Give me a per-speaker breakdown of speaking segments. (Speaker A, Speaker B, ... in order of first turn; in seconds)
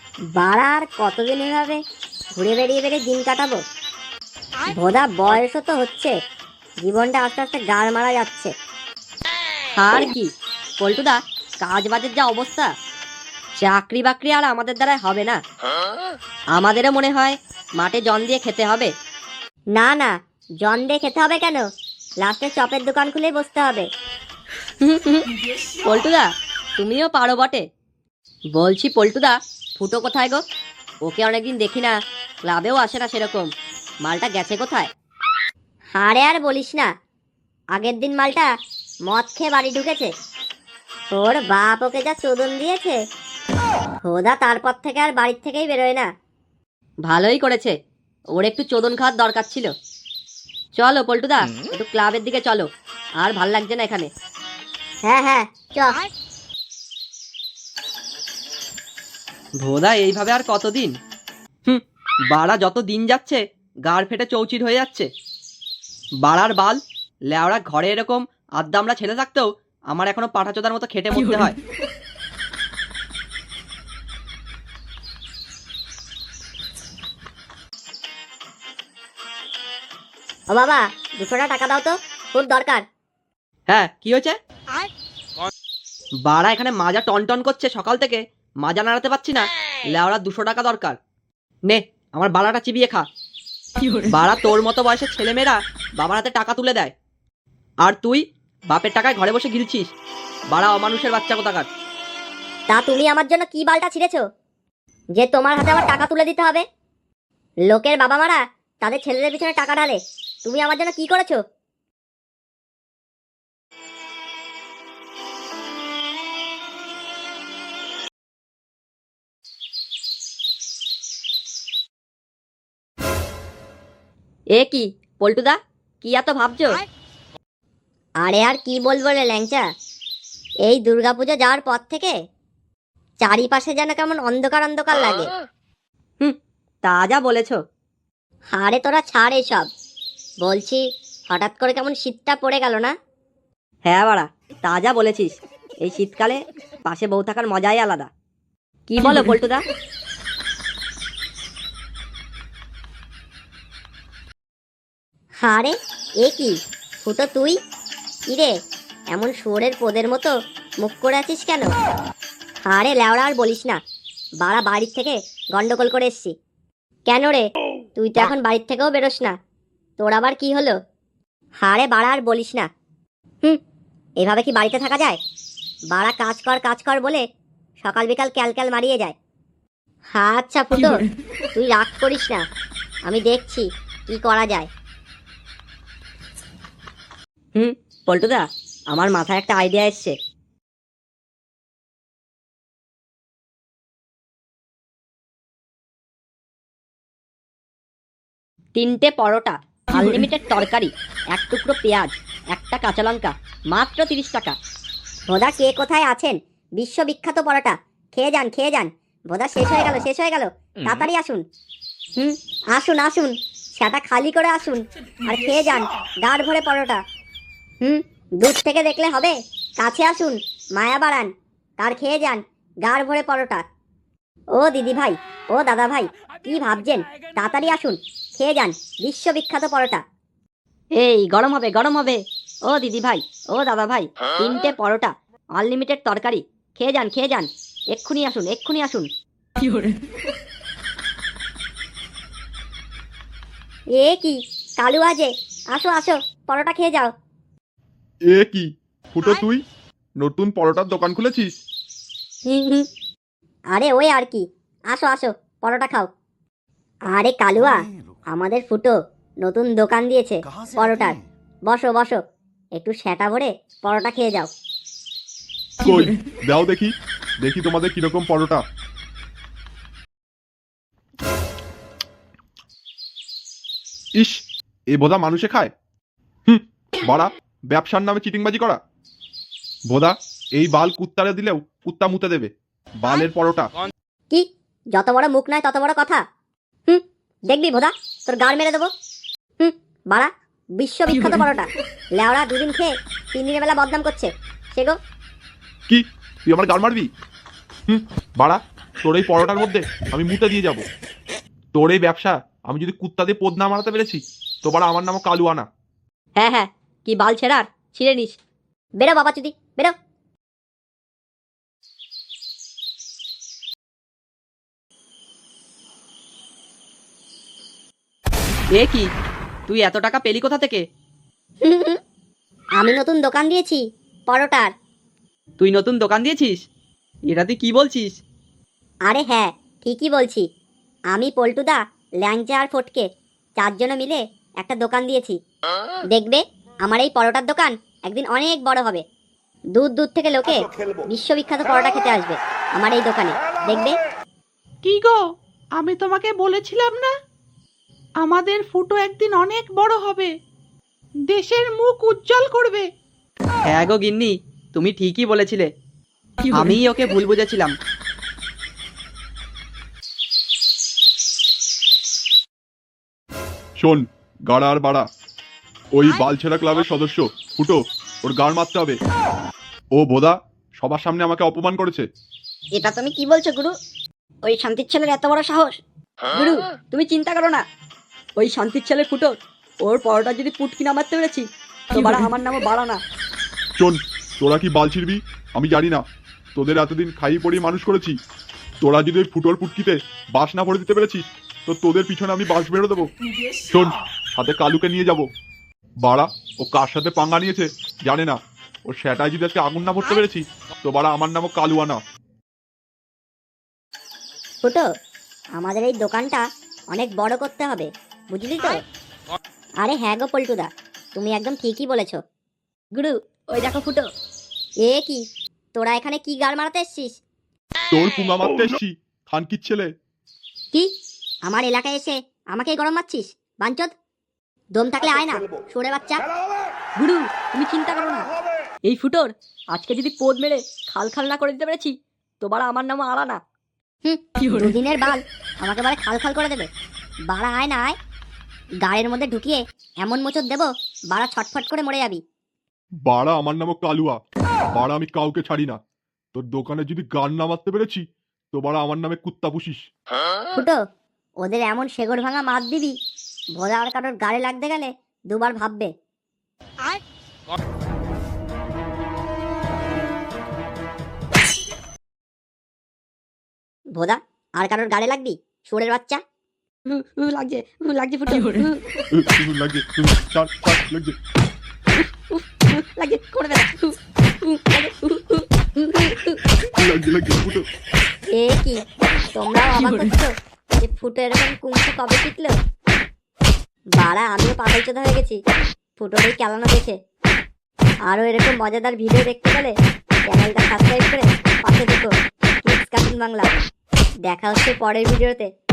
Speaker A: 0.3-1.8, 2.4-3.6, 4.7-6.1, 6.8-8.5, 19.7-21.6, 22.2-23.9, 36.0-36.9, 37.8-38.5, 39.1-40.1, 41.1-43.0, 44.0-46.1, 55.1-56.0, 80.5-82.8, 102.7-104.2, 105.2-106.6, 107.7-111.4, 128.2-129.6, 130.7-132.1, 133.2-135.3, 138.5-139.7, 140.4-142.9, 155.4-157.6, 159.1-161.7, 162.7-163.8, 164.4-166.3, 167.1-167.5, 168.0-169.3, 170.0-170.8, 171.6-172.7, 174.2-175.2, 175.9-177.2, 177.8-179.2, 180.2-181.0, 181.6-182.4, 183.1-184.7, 205.3-211.4, 212.2-217.0, 217.8-223.6, 224.6-230.0, 244.0-247.1, 252.5-252.9, 253.7-256.1, 257.1-257.8, 258.3-261.2, 261.7-262.2, 262.8-264.5, 284.3-286.2, 286.9-288.9, 289.6-291.7, 292.2-295.0, 309.0-309.9, 321.6-322.0, 322.8-324.7, 329.1-330.4, 331.1-333.1, 333.6-335.4, 336.1-339.0, 339.8-344.0, 405.6-408.8, 409.8-412.2, 414.9-415.2, 415.8-417.2, 421.5-423.9, 424.8-426.2, 434.1-436.7, 437.3-438.0, 438.9-442.2, 451.4-453.0, 453.6-455.9, 463.9-466.2, 478.3-478.8, 479.3-482.6, 484.0-485.4, 486.0-487.0, 488.1-489.8, 490.3-492.1, 492.6-493.6, 494.3-495.5
Speaker B: 9.8-12.7, 13.6-15.4, 16.6-18.9, 24.8-25.3, 25.8-27.6, 28.6-30.4, 31.1-33.5, 34.1-34.9, 47.1-47.7, 48.4-49.7, 50.8-52.7, 53.2-54.1, 124.5-126.8, 136.2-137.6, 143.9-148.1, 148.9-149.6, 187.6-190.2, 198.8-204.6, 231.0-239.1, 306.4-308.4, 372.8-373.7, 374.4-375.8, 376.4-377.6, 378.4-383.0, 412.9-414.1, 427.0-428.3, 428.9-433.4, 466.9-468.8, 472.1-476.4
Speaker C: 59.6-60.9, 61.7-65.1, 66.2-66.8, 67.3-71.6, 83.7-84.3, 86.3-91.0, 91.7-93.0, 94.0-96.9, 97.8-99.9, 100.5-101.7, 318.8-319.1, 319.7-320.8, 325.6-326.6, 327.3-328.2, 353.6-355.7, 356.5-357.7
Speaker D: 248.3-249.6, 250.2-251.5, 265.8-268.6, 274.9-275.7, 276.5-278.8, 279.9-283.7, 295.9-297.1, 297.9-300.9, 301.7-305.7, 363.8-365.1, 365.9-369.0, 369.9-372.1, 383.8-386.0, 386.6-388.1, 388.8-393.1, 393.7-395.2, 396.0-398.4, 398.9-402.0, 417.9-419.9, 443.1-444.2, 444.8-445.8, 446.3-449.9, 469.1-471.2, 476.8-477.7
Speaker E: 344.9-345.1, 345.9-347.1, 348.5-350.3, 351.3-352.8